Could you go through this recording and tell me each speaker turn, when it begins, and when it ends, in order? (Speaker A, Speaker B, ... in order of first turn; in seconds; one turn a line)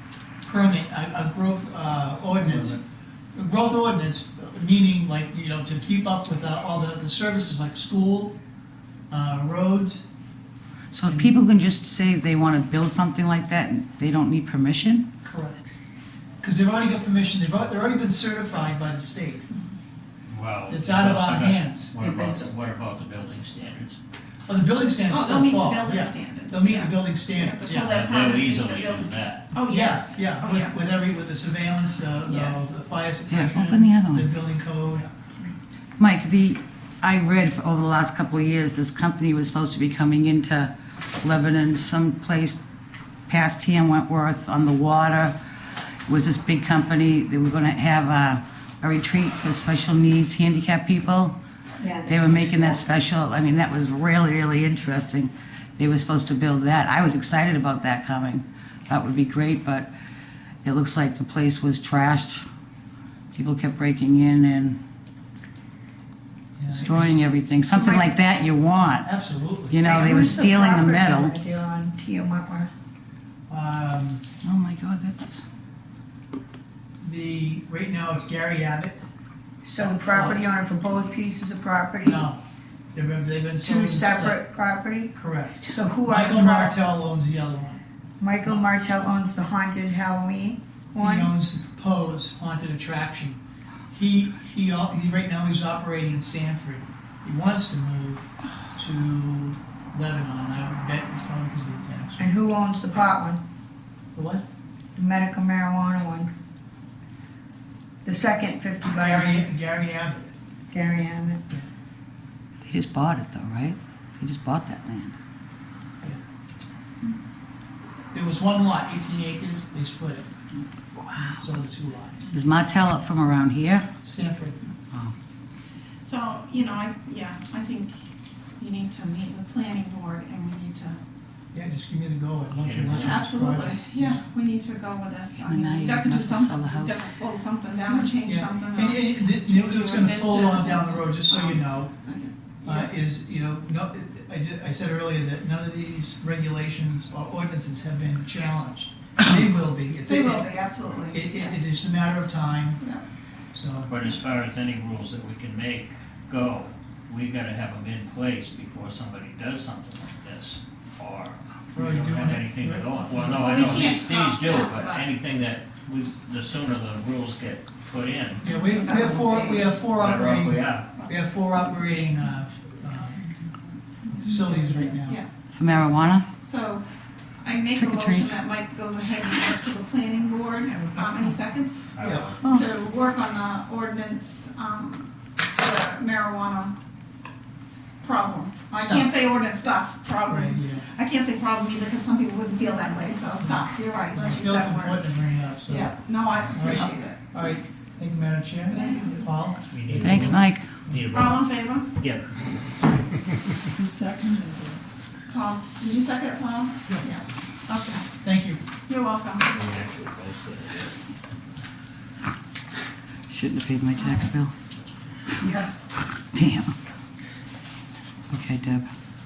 Speaker A: 0.4-2.8
Speaker A: 3.3-8.3
Speaker A: 9.1-10.1
Speaker B: 10.9-15.1
Speaker A: 11.1-11.4
Speaker A: 15.2-15.8
Speaker A: 16.4-19.4
Speaker C: 20.3-24.0
Speaker A: 20.7-21.9
Speaker D: 22.0-22.5
Speaker A: 24.5-27.9
Speaker E: 25.1-30.9
Speaker C: 27.8-29.4
Speaker A: 29.6-35.1
Speaker E: 32.3-32.8
Speaker B: 33.3-34.3
Speaker B: 36.0-42.6
Speaker B: 43.3-45.3
Speaker B: 46.0-51.3
Speaker D: 51.8-52.8
Speaker B: 52.0-59.9
Speaker B: 60.6-62.5
Speaker B: 63.3-64.8
Speaker A: 66.6-67.2
Speaker B: 66.7-69.1
Speaker A: 69.0-70.4
Speaker B: 69.7-71.3
Speaker D: 69.8-72.7
Speaker A: 73.5-74.2
Speaker B: 74.4-75.4
Speaker A: 77.0-79.0
Speaker D: 79.6-82.3
Speaker A: 79.7-80.5
Speaker A: 82.0-82.4
Speaker A: 82.9-84.4
Speaker D: 83.6-85.1
Speaker A: 85.1-87.8
Speaker D: 85.6-86.8
Speaker D: 88.2-91.3
Speaker A: 91.0-93.4
Speaker A: 93.9-102.3
Speaker D: 102.2-103.4
Speaker A: 104.1-104.4
Speaker D: 105.0-106.3
Speaker D: 108.0-109.5
Speaker A: 108.9-110.3
Speaker D: 110.7-111.4
Speaker B: 112.6-115.1
Speaker A: 118.1-120.3
Speaker B: 121.0-121.5
Speaker A: 121.2-122.3
Speaker B: 122.3-123.9
Speaker A: 124.0-124.6
Speaker E: 126.0-128.0
Speaker E: 128.6-131.0
Speaker A: 131.5-134.2
Speaker C: 132.5-133.6
Speaker E: 132.9-142.8
Speaker B: 135.4-137.0
Speaker A: 138.2-141.9
Speaker A: 142.6-150.5
Speaker E: 150.0-151.7
Speaker A: 151.1-152.8
Speaker E: 152.8-153.0
Speaker A: 153.5-153.9
Speaker C: 153.9-168.5
Speaker A: 161.7-163.8
Speaker E: 163.3-165.1
Speaker E: 168.4-169.8
Speaker A: 168.4-173.2
Speaker C: 169.9-170.9
Speaker A: 174.1-175.2
Speaker B: 175.5-176.2
Speaker E: 176.4-176.8
Speaker E: 177.4-181.9
Speaker B: 177.8-178.3
Speaker C: 181.9-182.7
Speaker A: 182.0-182.3
Speaker B: 182.4-182.7
Speaker E: 182.4-186.7
Speaker E: 188.0-197.2
Speaker A: 188.7-189.1
Speaker A: 190.2-190.8
Speaker A: 194.1-199.6
Speaker E: 198.7-199.3
Speaker C: 199.7-203.2
Speaker B: 199.9-200.7
Speaker E: 201.1-201.9
Speaker E: 205.3-208.1
Speaker A: 208.2-208.6
Speaker E: 208.9-209.6
Speaker C: 209.5-210.9
Speaker B: 213.3-214.5
Speaker E: 214.0-214.3
Speaker D: 215.4-215.7
Speaker B: 216.3-216.7
Speaker B: 218.3-218.9